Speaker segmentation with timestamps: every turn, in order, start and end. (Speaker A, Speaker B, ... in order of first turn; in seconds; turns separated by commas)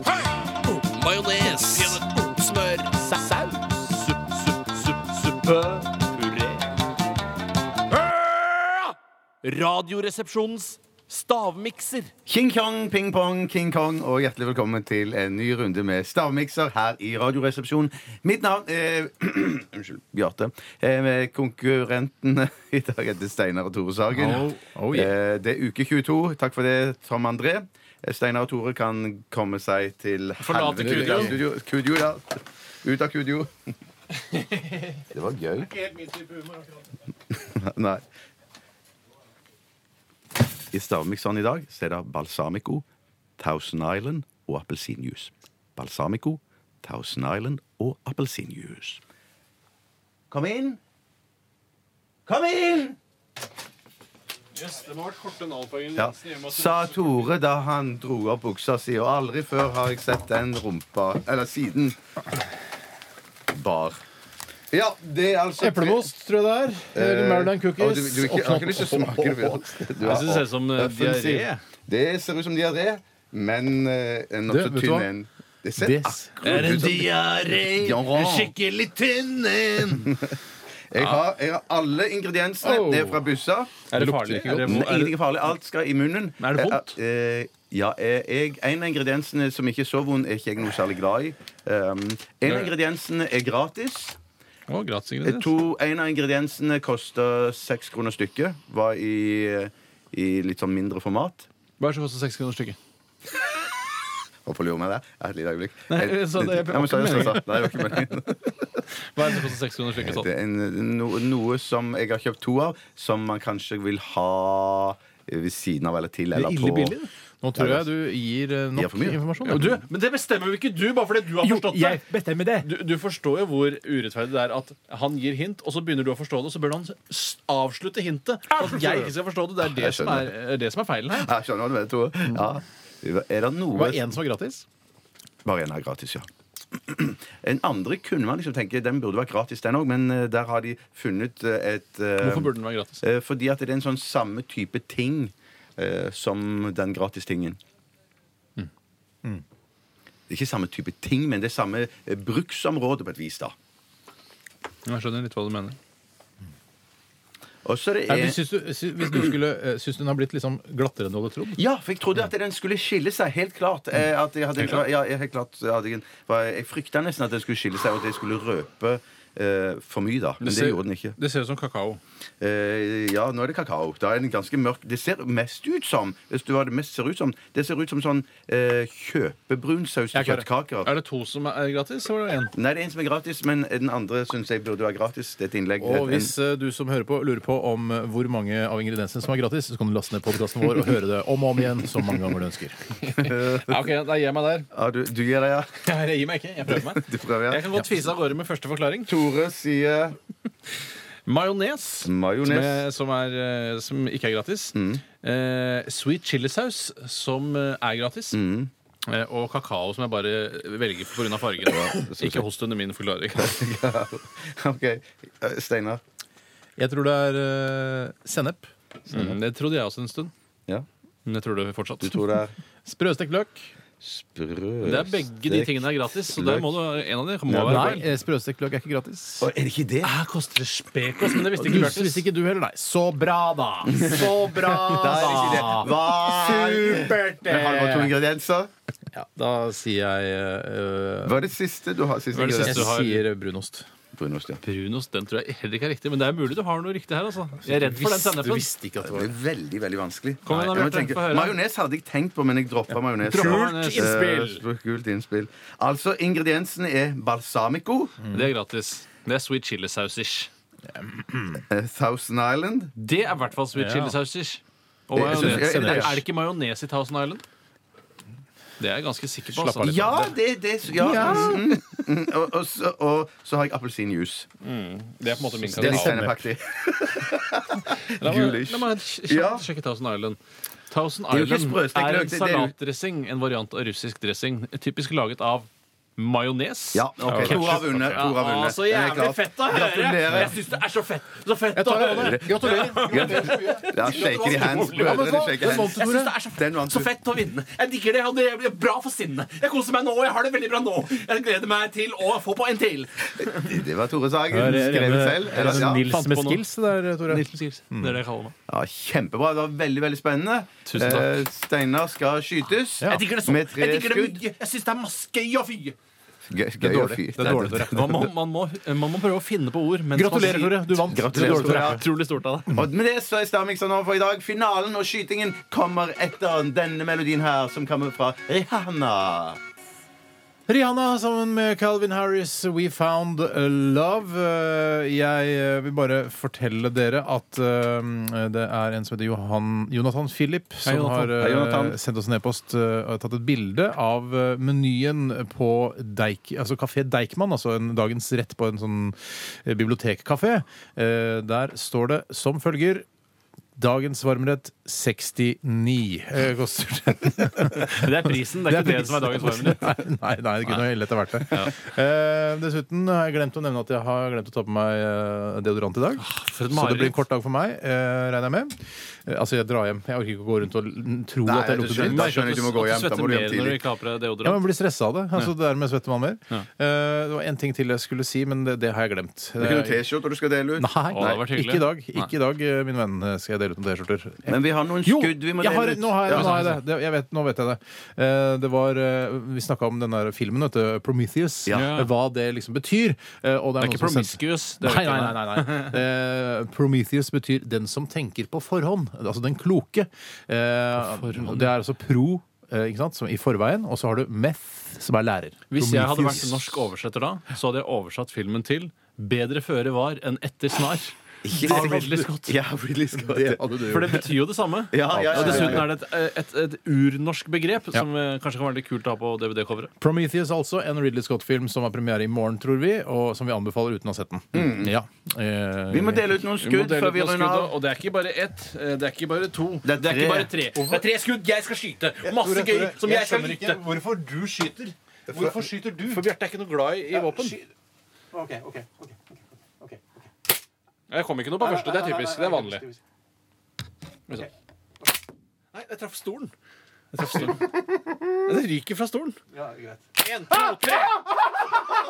Speaker A: 0.7-6.7, Speaker A: 7.9-12.1, Speaker B: 12.2-33.5, Speaker C: 24.1-25.1, Speaker A: 30.4-31.4, Speaker C: 30.8-31.4, Speaker A: 34.3-34.8, Speaker B: 35.1-35.7, Speaker A: 35.8-36.6, Speaker B: 37.3-38.0, Speaker B: 40.7-42.9, Speaker B: 43.4-49.0, Speaker B: 50.3-50.8, Speaker B: 52.2-53.0, Speaker A: 54.5-57.3, Speaker B: 56.0-62.0, Speaker B: 63.5-64.0, Speaker B: 64.7-66.1, Speaker C: 65.6-69.6, Speaker B: 66.9-78.5, Speaker A: 70.0-71.6, Speaker C: 74.5-75.1, Speaker C: 75.8-76.7, Speaker A: 76.4-80.2, Speaker B: 80.9-94.2, Speaker A: 81.0-81.2, Speaker C: 82.6-83.2, Speaker A: 83.9-85.2, Speaker C: 83.9-84.7, Speaker A: 86.4-86.9, Speaker A: 92.5-92.7, Speaker A: 94.7-95.5, Speaker B: 95.2-101.5, Speaker A: 101.8-102.8, Speaker B: 104.4-108.8, Speaker A: 105.9-107.5, Speaker A: 109.1-110.3, Speaker B: 110.0-117.0, Speaker A: 116.4-117.0, Speaker C: 116.6-119.8, Speaker B: 117.5-117.9, Speaker B: 118.7-119.8, Speaker A: 119.4-122.0, Speaker C: 121.4-122.7, Speaker A: 122.6-131.3, Speaker C: 128.5-129.1, Speaker B: 129.7-130.3, Speaker B: 131.1-134.0, Speaker C: 133.7-134.6, Speaker B: 135.4-147.6, Speaker A: 142.2-143.0, Speaker B: 150.3-153.5, Speaker A: 154.8-155.8, Speaker B: 157.6-158.4, Speaker C: 158.1-161.6, Speaker B: 161.6-171.2, Speaker A: 164.6-164.8, Speaker A: 170.4-172.0, Speaker B: 172.4-180.9, Speaker C: 180.1-180.4, Speaker A: 180.8-182.5, Speaker B: 182.5-186.3, Speaker C: 185.8-192.8, Speaker A: 193.0-194.7, Speaker B: 193.2-193.8, Speaker B: 194.7-195.8, Speaker A: 195.8-199.1, Speaker B: 196.7-197.7, Speaker B: 199.1-200.2, Speaker A: 201.2-208.4, Speaker B: 202.0-202.9, Speaker B: 204.7-205.0, Speaker B: 208.3-208.7, Speaker A: 209.1-213.5, Speaker B: 211.6-212.5, Speaker B: 213.3-216.0, Speaker C: 216.8-218.7, Speaker A: 219.1-220.3, Speaker A: 221.2-222.2, Speaker B: 222.0-222.5, Speaker C: 222.8-223.7, Speaker B: 224.0-226.7, Speaker A: 224.8-228.1, Speaker B: 227.4-228.0, Speaker C: 227.6-229.5, Speaker B: 229.4-230.1, Speaker A: 230.0-232.3, Speaker C: 231.6-238.1, Speaker B: 233.8-238.7, Speaker A: 235.0-235.8, Speaker C: 239.1-241.5, Speaker B: 241.2-242.9, Speaker A: 242.3-243.2, Speaker C: 242.6-243.9, Speaker B: 244.1-244.6, Speaker A: 244.6-248.7, Speaker C: 247.6-249.3, Speaker B: 249.0-258.2, Speaker A: 250.4-251.6, Speaker C: 253.2-254.2, Speaker A: 253.3-254.6, Speaker C: 258.2-258.5, Speaker A: 258.3-260.5, Speaker C: 260.9-261.6, Speaker B: 261.7-262.9, Speaker A: 262.9-267.4, Speaker C: 263.7-264.1, Speaker B: 265.1-266.2, Speaker C: 265.2-266.2, Speaker A: 268.8-270.1, Speaker C: 269.5-270.3, Speaker B: 269.8-274.5, Speaker C: 270.9-271.8, Speaker A: 271.2-271.4, Speaker A: 274.6-276.2, Speaker B: 275.6-279.6, Speaker C: 275.6-276.5, Speaker A: 278.1-280.4, Speaker A: 280.9-303.8, Speaker B: 281.3-282.7, Speaker B: 286.9-290.6, Speaker C: 287.2-287.8, Speaker C: 291.7-296.3, Speaker B: 292.1-297.1, Speaker B: 303.6-306.0, Speaker C: 304.5-308.2, Speaker A: 304.6-306.7, Speaker A: 307.2-308.5, Speaker B: 308.7-314.4, Speaker A: 310.9-311.4, Speaker C: 313.0-313.2, Speaker A: 313.0-315.9, Speaker B: 316.5-318.3, Speaker C: 316.8-318.0, Speaker A: 317.5-322.7, Speaker C: 320.1-322.0, Speaker B: 321.1-322.0, Speaker B: 322.7-329.6, Speaker C: 330.7-353.1, Speaker A: 340.8-341.4, Speaker B: 341.3-342.0, Speaker C: 353.8-358.0, Speaker A: 357.7-360.0, Speaker C: 358.6-372.5, Speaker A: 361.5-361.7, Speaker A: 366.2-367.2, Speaker B: 371.4-373.8, Speaker A: 371.8-374.6, Speaker C: 374.4-380.0, Speaker B: 379.6-381.4, Speaker C: 380.8-406.6, Speaker A: 381.1-382.3, Speaker B: 384.4-386.6, Speaker A: 386.2-386.8, Speaker A: 391.7-392.1, Speaker A: 393.8-396.0, Speaker A: 401.0-401.7, Speaker A: 405.7-412.5, Speaker B: 411.4-414.2, Speaker C: 411.5-412.3, Speaker C: 413.1-414.2, Speaker A: 413.8-419.9, Speaker B: 414.9-415.9, Speaker C: 415.1-415.9, Speaker C: 420.0-426.3, Speaker B: 424.5-424.9, Speaker B: 425.9-427.7, Speaker A: 426.6-433.8, Speaker B: 429.8-430.5, Speaker C: 430.7-431.0, Speaker C: 432.3-436.2, Speaker A: 436.1-437.6, Speaker C: 437.1-437.6, Speaker C: 438.3-439.2, Speaker A: 441.1-442.9, Speaker C: 441.6-443.0, Speaker A: 445.7-446.5, Speaker A: 447.1-447.7, Speaker C: 447.2-448.3, Speaker A: 448.4-451.3